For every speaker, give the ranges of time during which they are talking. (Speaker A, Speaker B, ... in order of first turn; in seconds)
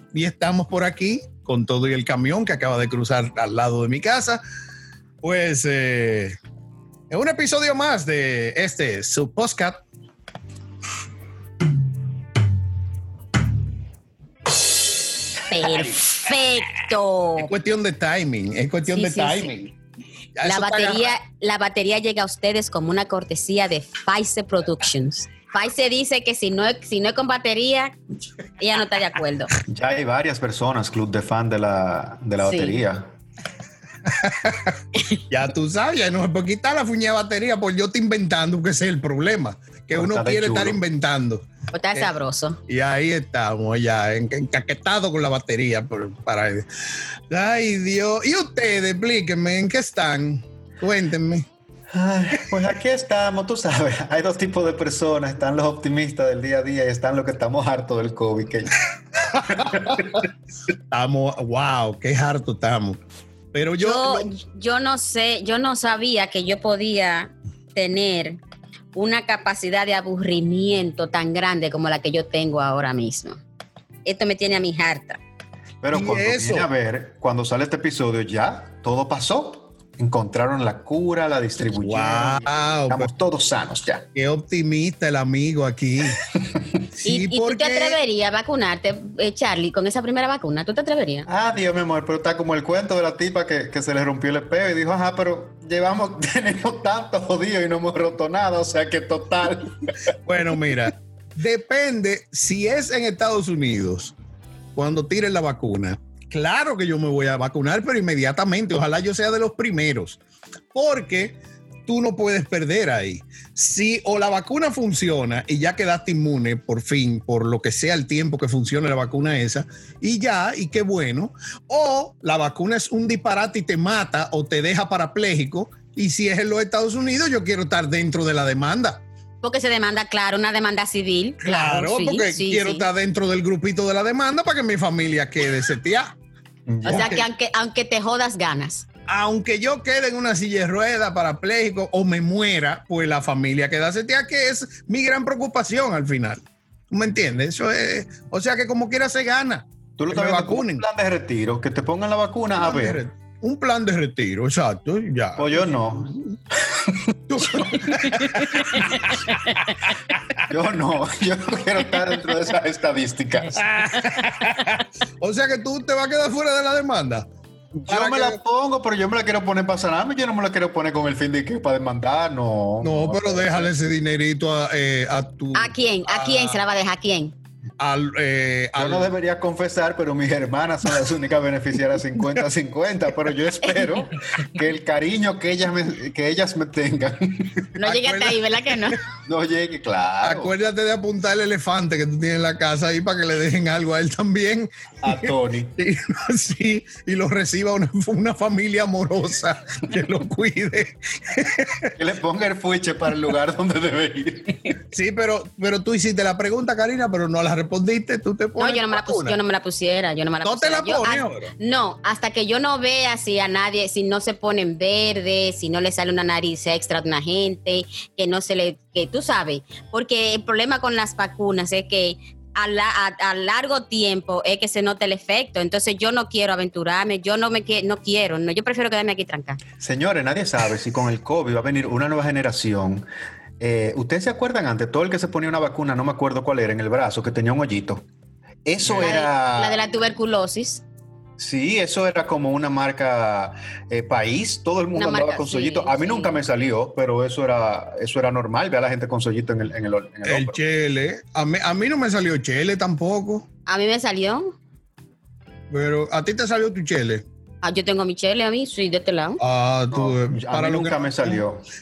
Speaker A: 0.1-4.4, 5.2-6.4, 7.1-9.8, 17.4-19.7, 20.4-21.1, 34.1-42.1, 42.7-46.7, 47.3-51.5, 59.3-60.0, 60.9-63.0, 63.5-64.3, 75.9-76.7, 81.8-83.1, 84.1-86.2, 87.0-88.0, 100.2-104.1, 104.8-110.2, 110.7-129.0, 131.4-136.1, 136.8-137.2, 139.1-150.8, 152.6-156.4, 157.3-160.5, 163.5-167.3, 167.9-168.4, 172.8-176.6, 177.8-179.1, 187.8-188.9, 190.2-202.0, 204.9-209.4, 210.4-211.5, 250.2-253.5, 255.7-257.2, 259.4-261.4
Speaker B: 15.5-17.5, 18.9-19.5, 20.5-28.0, 28.6-29.5, 32.4-32.8, 41.7-42.6, 63.8-68.4, 69.0-73.4, 74.0-75.2, 87.1-91.3, 129.4-132.9, 136.9-138.9, 158.2-158.5, 159.3-159.6, 175.6-177.3, 183.7-184.1, 187.8-189.0, 208.6-229.6, 239.0-240.8, 245.0-246.3, 253.7-254.6, 257.6-259.4
Speaker C: 29.6-33.1, 39.9-40.8, 51.9-58.7, 59.4-60.2, 75.8-84.1, 91.3-99.8, 136.7-137.2, 150.0-153.0, 155.4-158.0, 158.7-159.0, 160.5-163.6, 167.7-173.7, 178.8-187.7, 189.2-190.5, 195.0-195.8, 202.0-204.8, 229.8-233.1, 233.6-238.1, 238.7-239.8, 241.4-250.6, 259.9-261.6